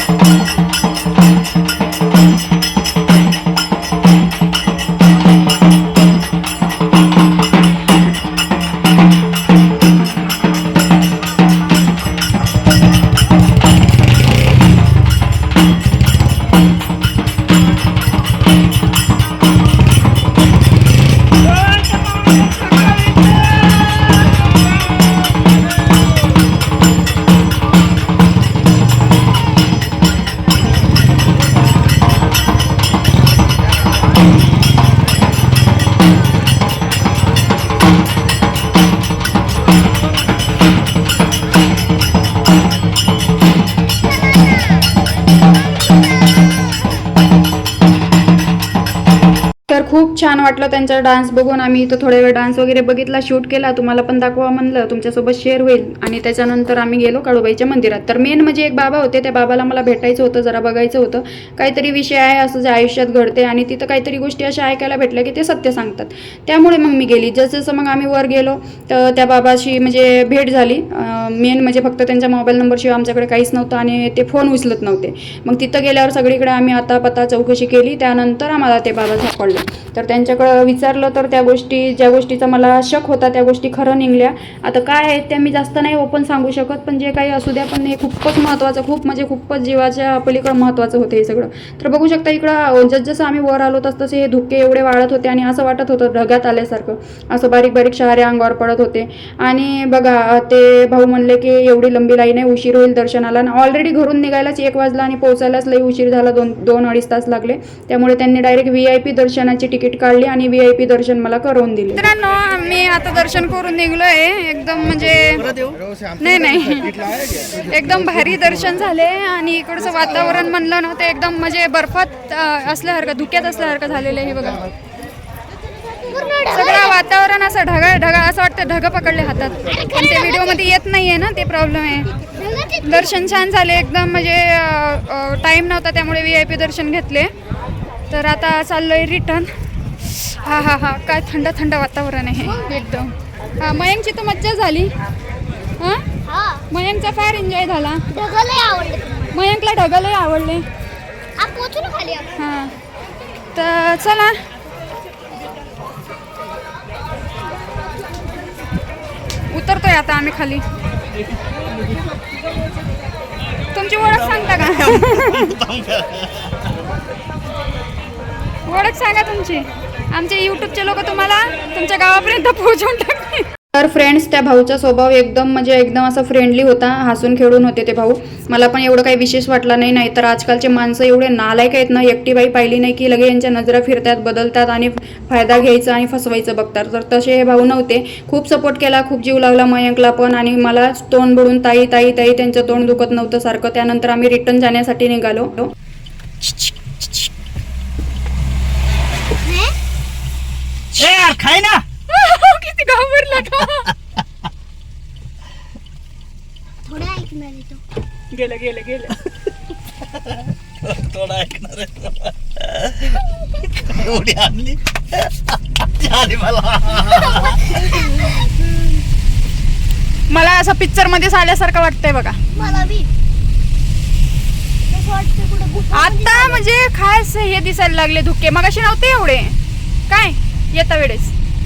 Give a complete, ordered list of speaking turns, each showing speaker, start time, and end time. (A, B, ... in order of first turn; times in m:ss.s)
0:49.7-1:55.5 A
1:56.2-2:04.7 A
2:06.0-2:07.0 B
2:06.5-2:12.1 A
2:09.7-2:10.6 B
2:12.4-2:13.2 B
2:12.9-2:17.3 A
2:18.1-2:24.9 A
2:22.4-2:23.0 B
2:25.8-2:26.1 A
2:26.2-2:26.7 B
2:26.7-2:28.1 A
2:28.1-2:29.4 B
2:29.4-2:30.7 A
2:31.4-2:32.4 B
2:32.4-2:32.8 A
2:33.6-2:34.4 A
2:39.5-2:40.6 A
2:43.7-2:45.6 A
2:44.5-2:46.4 C
2:48.7-3:15.7 A
3:16.4-3:17.3 A
3:19.4-3:19.8 B
3:21.0-3:21.8 C
3:22.1-3:23.8 A
3:26.9-3:27.8 B
3:28.4-3:29.1 A
3:30.8-3:33.2 C
3:33.8-3:37.2 C
3:37.1-3:37.8 B
3:40.3-3:42.7 A
3:42.5-3:43.1 B
3:44.9-3:46.6 B
3:45.9-3:49.6 A
3:50.1-3:51.3 A